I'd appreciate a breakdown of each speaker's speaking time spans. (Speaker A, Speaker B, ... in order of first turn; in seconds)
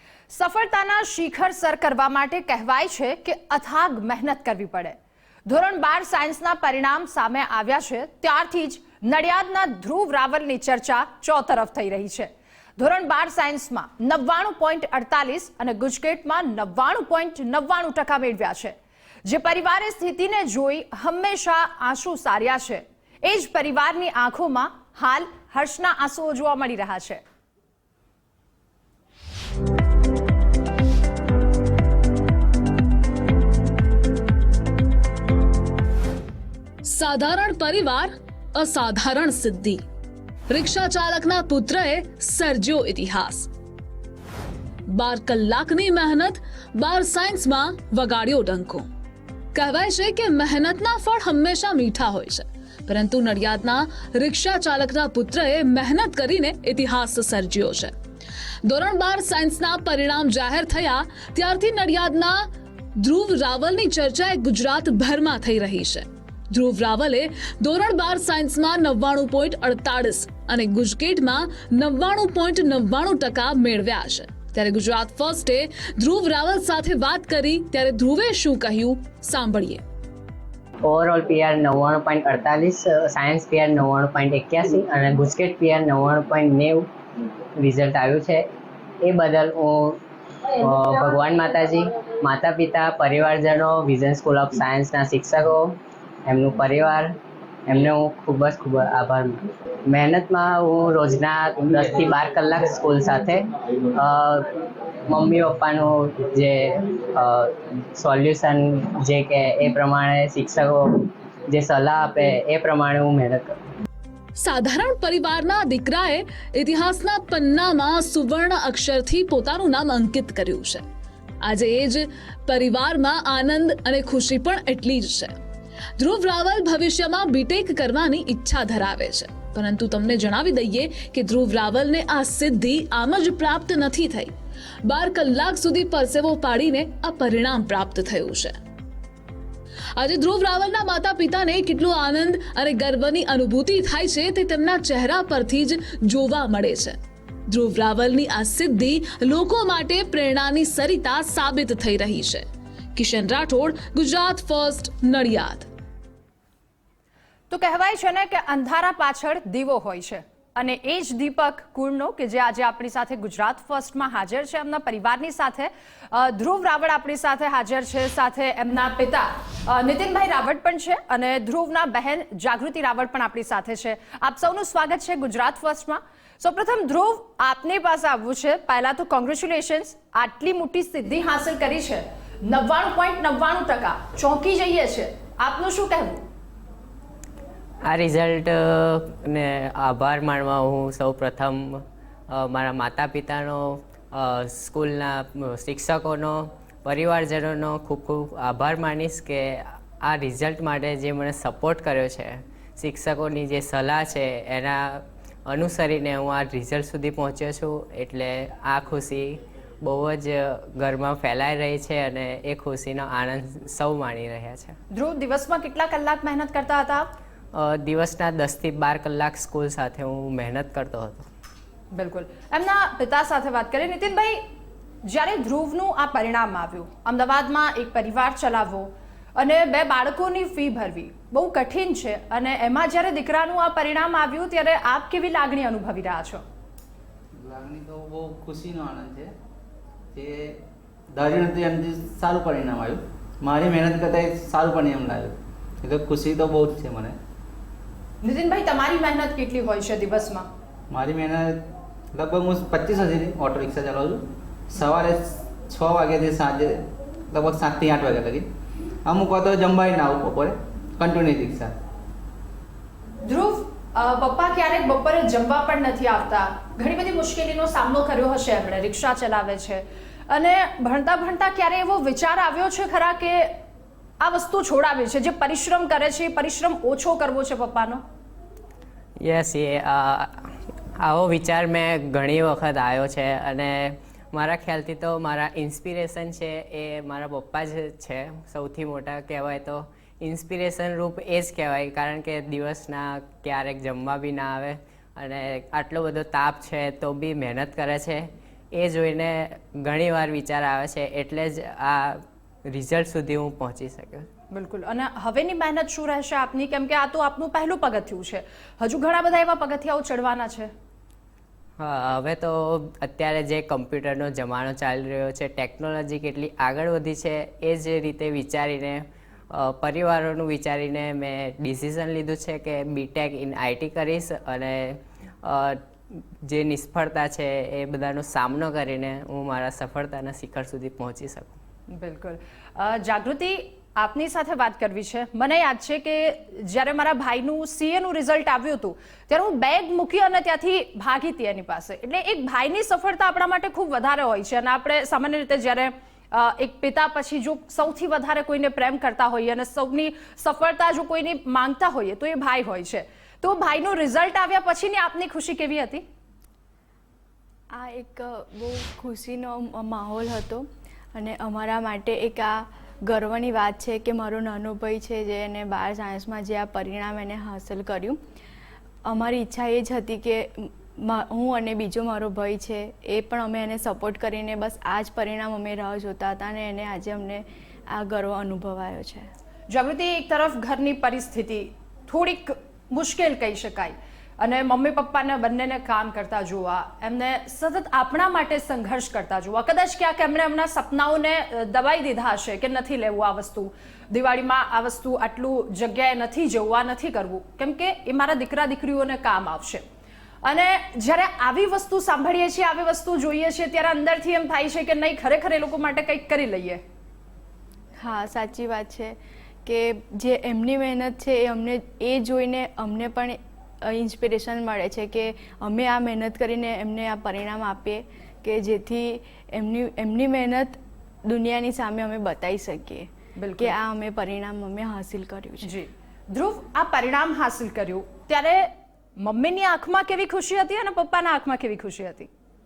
Speaker A: 0.3-27.2, 157.5-186.2, 214.9-217.1, 221.9-224.4, 225.0-236.4, 248.2-250.5, 263.2-273.5, 274.2-278.0, 304.5-310.7, 331.9-356.0, 379.7-399.8, 400.4-406.8, 423.4-423.8, 425.6-432.3
Speaker B: 36.9-39.8, 40.5-43.5, 44.9-48.9, 49.5-57.9, 58.7-62.5, 63.0-79.8, 114.4-120.8, 121.4-125.3, 126.0-134.3, 134.9-138.6, 140.0-147.0, 147.5-152.4, 153.0-155.7
Speaker C: 80.8-86.9, 87.6-88.5, 89.0-90.0, 90.5-104.5, 105.1-113.6, 187.8-214.8, 217.5-221.3, 279.2-304.3, 311.8-331.6
Speaker D: 237.4-239.3, 240.2-240.6, 241.1-247.2, 250.9-251.6, 252.1-258.5, 259.1-261.7
Speaker E: 357.7-368.2, 369.1-379.3, 408.0-425.7